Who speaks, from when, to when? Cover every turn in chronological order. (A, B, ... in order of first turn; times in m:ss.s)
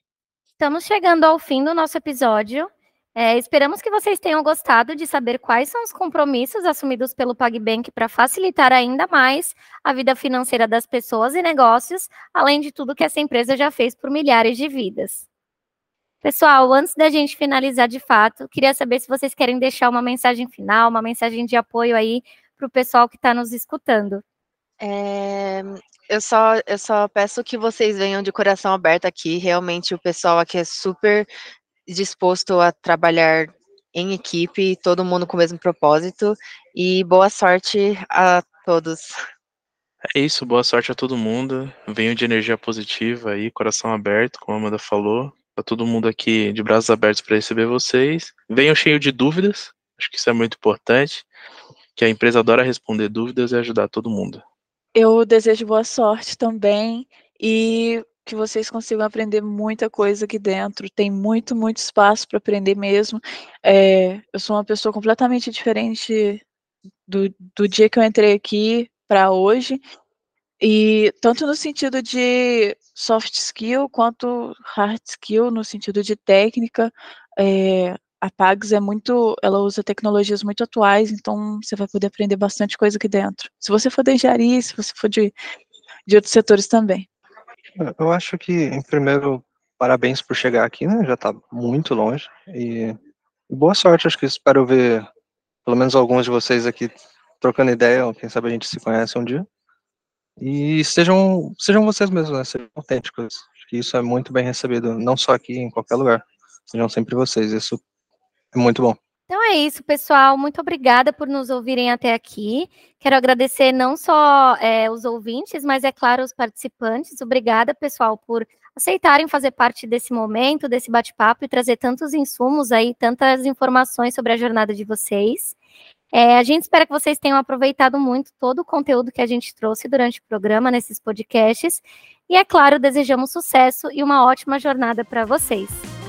0:00.6-0:15.2 A
0:16.2-0:24.2 A
0:24.8-0:31.3 B
0:31.9-0:39.1 B
0:40.1-0:51.3 C
0:52.0-0:54.4 C
0:54.9-1:06.4 D
1:07.1-1:09.8 D
1:10.6-1:25.4 D
1:26.0-1:27.0 D
1:27.8-1:33.0 E
1:33.5-1:35.0 E
1:35.6-1:39.4 E
1:40.4-1:47.8 E
1:48.5-1:49.0 E
1:49.3-2:05.5 A
2:06.1-2:15.9 A